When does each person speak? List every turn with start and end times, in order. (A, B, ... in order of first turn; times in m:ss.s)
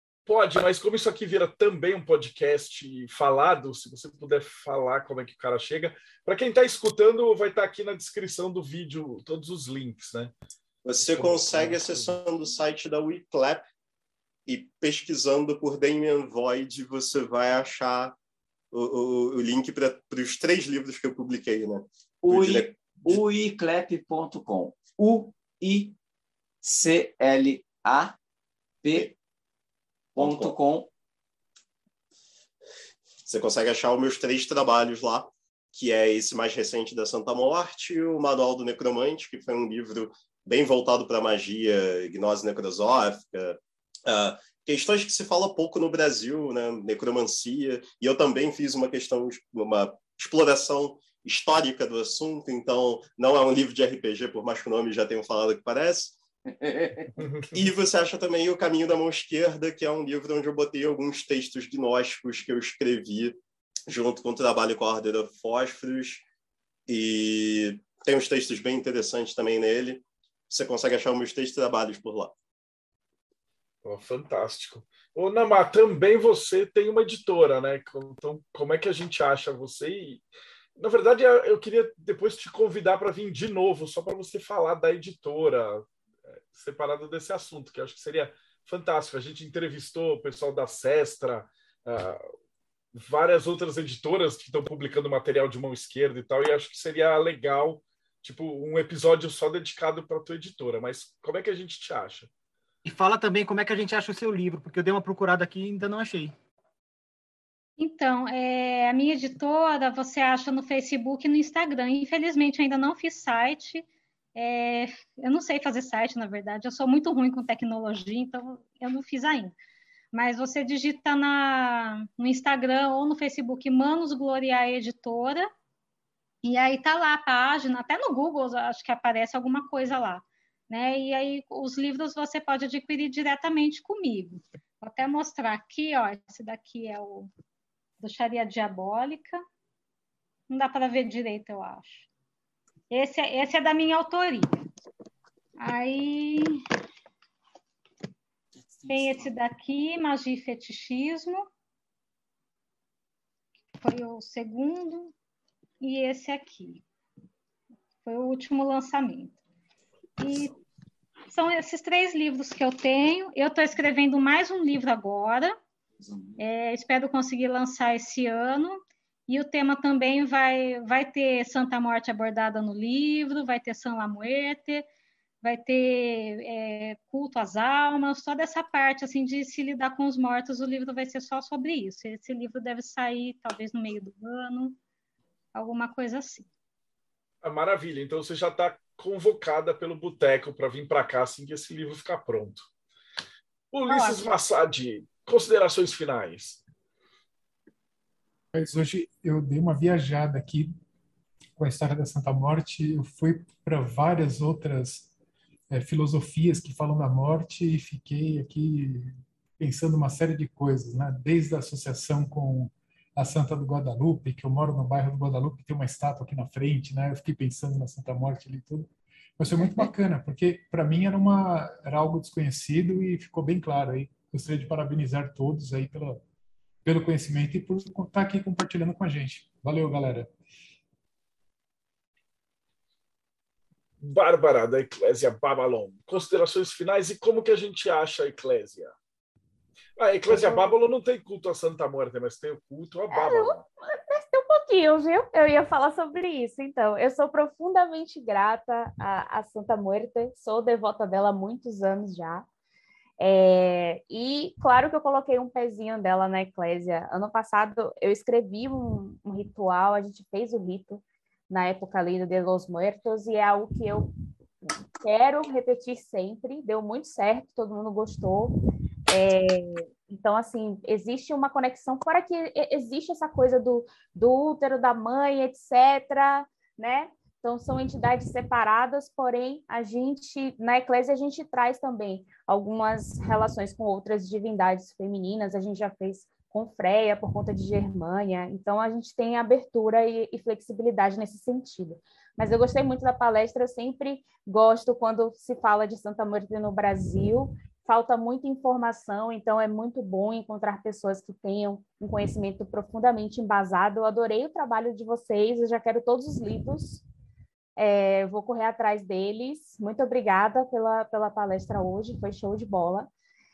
0:00.3-0:10.3 A
0:10.8-0:13.6 B
0:11.0-0:12.2 A
0:14.5-0:18.2 B
0:18.7-0:23.2 B
0:22.2-0:26.0 C
0:26.6-0:28.2 C
0:28.8-0:29.1 C
0:30.1-0:30.5 B
0:30.2-0:30.9 C
0:33.2-0:56.2 B
0:56.5-0:57.1 C
0:57.2-0:57.6 A
0:57.5-1:03.4 B
1:03.9-1:06.2 B
1:06.9-1:12.4 B
1:13.8-1:20.2 A
1:20.8-1:25.9 A
1:26.5-1:32.2 A
1:33.0-1:42.3 A
1:42.8-1:46.3 D
1:47.8-1:59.5 E
2:00.1-2:05.5 E
2:06.4-2:17.3 E
2:18.0-2:19.4 E
2:20.5-2:22.1 E
2:22.9-2:24.6 E
2:25.6-2:26.6 E
2:28.9-2:31.5 E
2:33.8-2:35.1 E
2:35.8-2:36.8 E
2:38.0-2:39.4 E
2:40.2-2:40.5 E
2:41.3-2:45.6 E
2:46.0-2:46.4 C
2:46.4-2:54.9 E
2:55.4-3:04.8 E
3:05.6-3:06.5 E
3:07.4-3:12.7 A
3:13.7-3:16.6 A
3:13.9-3:14.2 E
3:18.5-3:20.8 F
3:21.6-3:25.1 F
3:25.7-3:46.2 F
3:46.8-3:50.3 F
3:54.0-3:58.9 A
4:00.0-4:03.6 A
4:00.3-4:00.7 G
4:03.1-4:12.5 G
4:13.2-4:24.1 G
4:25.0-4:28.6 G
4:29.1-5:07.0 G
5:07.8-5:13.1 G